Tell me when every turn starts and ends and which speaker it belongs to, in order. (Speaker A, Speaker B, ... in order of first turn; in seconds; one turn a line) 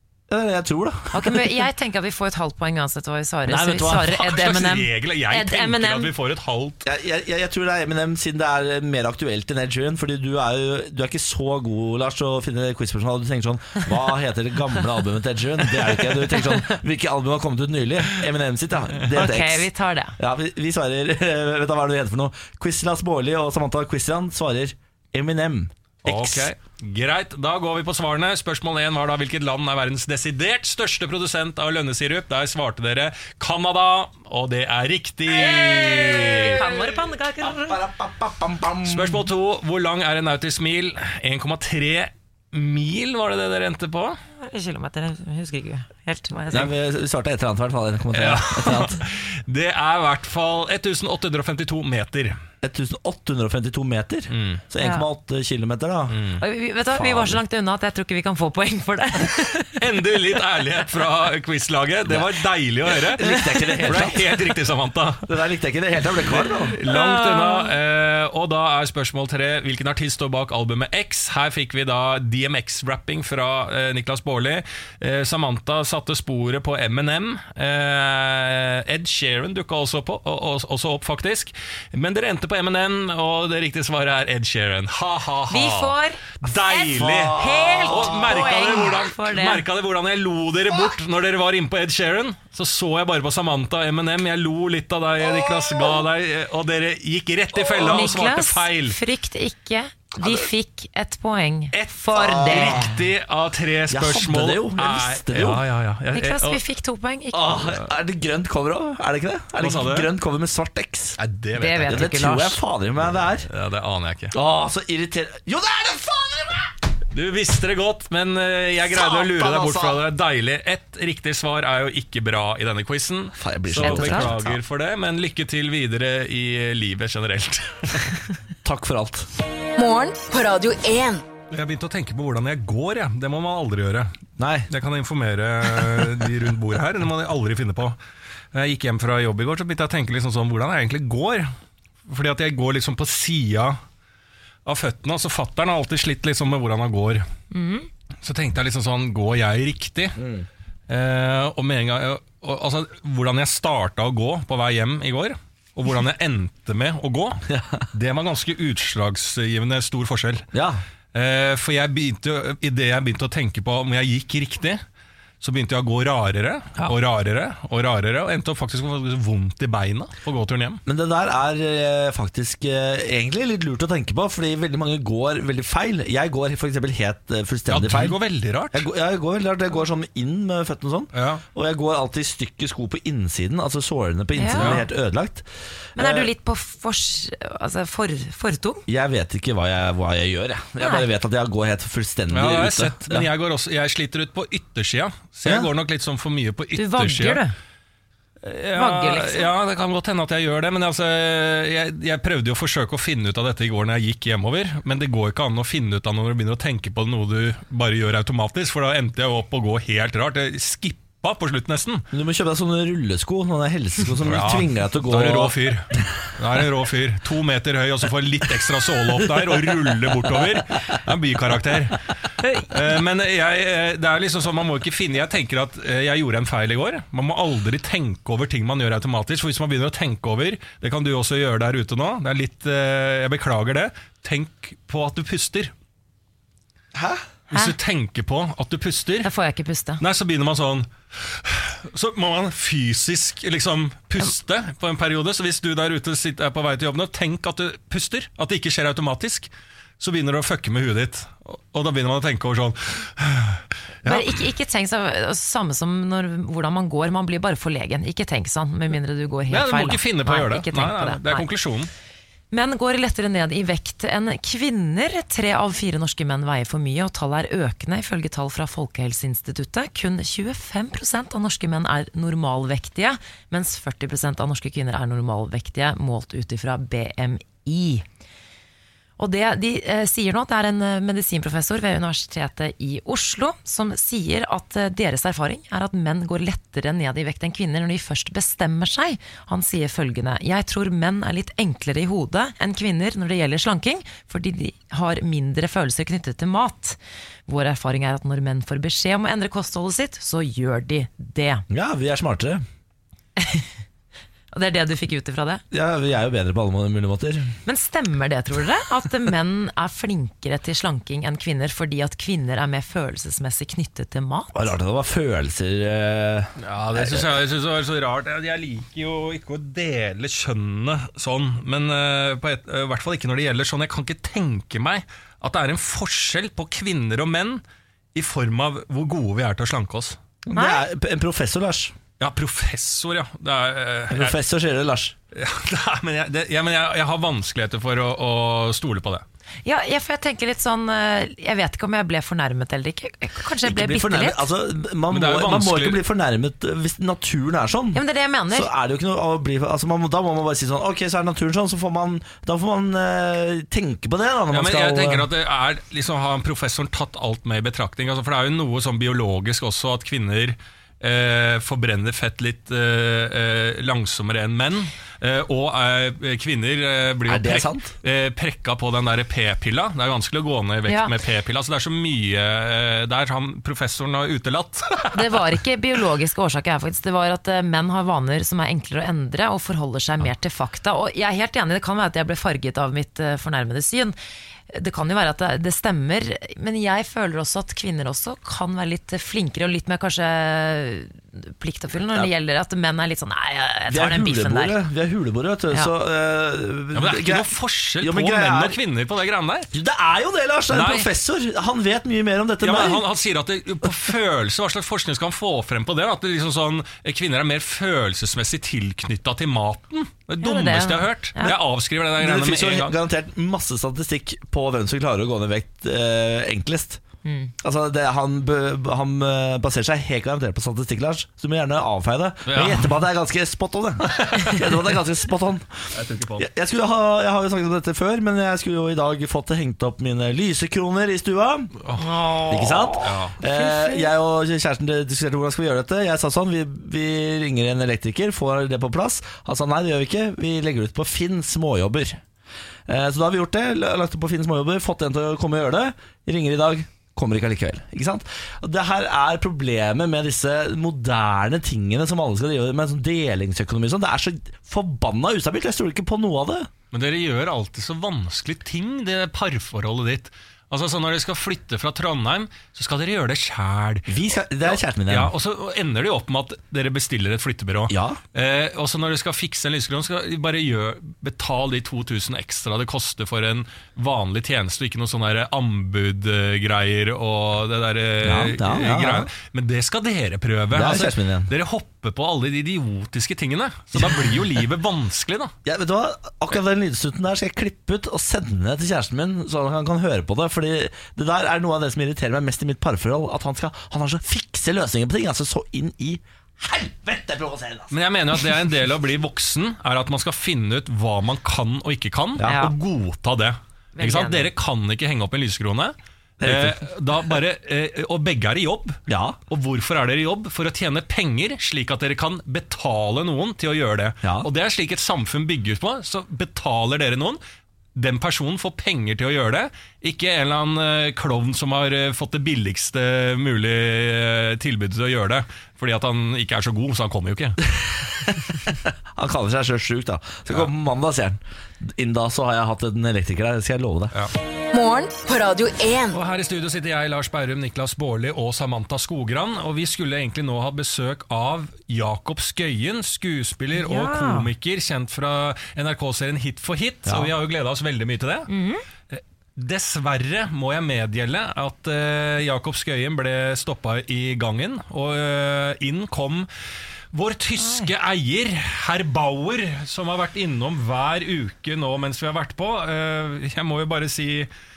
Speaker A: 0.3-1.5
Speaker B: 1.1-6.1
Speaker A: 3.5-4.0
Speaker C: 4.0-6.8
Speaker A: 6.8-26.5
Speaker B: 16.2-16.7
Speaker B: 19.1-20.2
Speaker C: 26.0-36.7
Speaker B: 35.3-37.8
Speaker A: 36.0-36.8
Speaker A: 37.4-39.2
Speaker C: 38.9-44.2
Speaker B: 44.4-46.7
Speaker A: 46.5-49.0
Speaker C: 48.1-52.4
Speaker A: 52.6-56.3
Speaker C: 54.3-54.6
Speaker B: 54.8-55.1
Speaker C: 56.1-56.4
Speaker B: 56.4-59.8
Speaker A: 56.9-57.4
Speaker C: 59.8-65.3
Speaker A: 63.0-64.6
Speaker A: 65.2-66.8
Speaker C: 66.2-99.0
Speaker B: 66.8-67.7
Speaker B: 85.5-89.6
Speaker A: 86.8-88.9
Speaker A: 95.2-96.0
Speaker B: 97.8-102.9
Speaker C: 101.7-106.6
Speaker A: 102.1-103.0
Speaker A: 103.9-105.6
Speaker B: 106.1-107.7
Speaker A: 107.3-111.2
Speaker C: 109.6-110.1
Speaker C: 111.2-112.1
Speaker B: 111.5-112.6
Speaker A: 111.8-113.5
Speaker C: 113.5-114.3
Speaker A: 114.3-116.7
Speaker C: 117.1-128.3
Speaker A: 118.9-120.0
Speaker A: 123.4-124.6
Speaker B: 123.8-124.3
Speaker A: 128.6-129.3
Speaker D: 129.8-131.2
Speaker C: 131.5-134.1
Speaker A: 134.4-134.7
Speaker C: 134.7-138.0
Speaker C: 138.5-141.5
Speaker C: 142.1-143.8
Speaker C: 144.6-147.2
Speaker B: 147.5-147.9
Speaker C: 148.2-150.2
Speaker A: 150.2-150.4
Speaker C: 150.9-160.4
Speaker A: 157.5-157.8
Speaker A: 160.5-160.8
Speaker C: 161.1-164.8
Speaker C: 165.4-170.8
Speaker A: 170.8-178.2
Speaker C: 177.7-178.9
Speaker A: 178.7-186.3
Speaker C: 181.1-181.4
Speaker B: 184.3-184.8
Speaker C: 184.6-184.8
Speaker B: 185.9-188.8
Speaker A: 188.9-193.3
Speaker B: 190.8-191.1
Speaker C: 192.3-197.4
Speaker B: 196.7-197.5
Speaker C: 198.4-212.0
Speaker B: 198.7-199.5
Speaker A: 212.1-216.1
Speaker C: 214.2-222.0
Speaker A: 219.1-220.1
Speaker B: 222.4-222.7
Speaker C: 222.6-235.7
Speaker A: 236.9-237.2
Speaker C: 237.5-239.3
Speaker B: 239.2-240.0
Speaker C: 240.0-254.4
Speaker B: 254.0-261.5
Speaker C: 259.5-261.9
Speaker B: 262.5-278.0
Speaker B: 279.2-301.6
Speaker A: 301.7-302.6
Speaker B: 303.4-303.7
Speaker B: 304.5-305.6
Speaker A: 305.7-307.6
Speaker B: 307.6-314.8
Speaker A: 314.5-317.3
Speaker C: 316.6-327.6
Speaker C: 328.1-330.2
Speaker A: 330.4-331.9
Speaker B: 330.5-330.8
Speaker C: 332.2-334.4
Speaker A: 334.1-335.1
Speaker C: 335.3-339.2
Speaker B: 339.6-344.5
Speaker A: 343.6-355.3
Speaker C: 345.1-346.0
Speaker B: 347.9-348.7
Speaker C: 354.5-375.1
Speaker A: 367.3-367.9
Speaker B: 370.9-371.1
Speaker B: 375.1-384.1
Speaker B: 384.7-394.8
Speaker A: 393.9-397.5
Speaker C: 396.9-399.7
Speaker A: 398.0-398.8
Speaker A: 399.7-403.0
Speaker C: 400.7-401.1
Speaker C: 402.6-412.9
Speaker B: 410.4-411.6
Speaker A: 412.2-417.0
Speaker B: 417.2-417.5
Speaker A: 417.6-431.7
Speaker C: 422.5-422.9
Speaker C: 424.1-424.6
Speaker C: 425.9-426.5
Speaker C: 431.8-432.4
Speaker B: 432.0-434.1
Speaker A: 432.5-442.2
Speaker C: 433.0-433.4
Speaker A: 442.9-456.7
Speaker C: 456.9-485.5
Speaker A: 464.1-465.3
Speaker A: 467.9-468.2
Speaker A: 478.2-479.3
Speaker A: 480.7-481.5
Speaker A: 483.9-484.3
Speaker A: 485.6-497.9
Speaker C: 497.9-517.4
Speaker A: 502.4-502.7
Speaker B: 502.4-502.8
Speaker B: 503.9-504.5
Speaker A: 506.4-506.8
Speaker A: 509.1-509.4
Speaker A: 514.2-514.5
Speaker C: 517.9-527.6
Speaker A: 527.7-534.1
Speaker D: 534.7-536.2
Speaker C: 536.1-548.5
Speaker B: 543.7-544.5
Speaker A: 547.0-547.3
Speaker B: 548.5-548.8
Speaker C: 549.1-556.5
Speaker C: 557.1-564.5
Speaker B: 557.6-557.9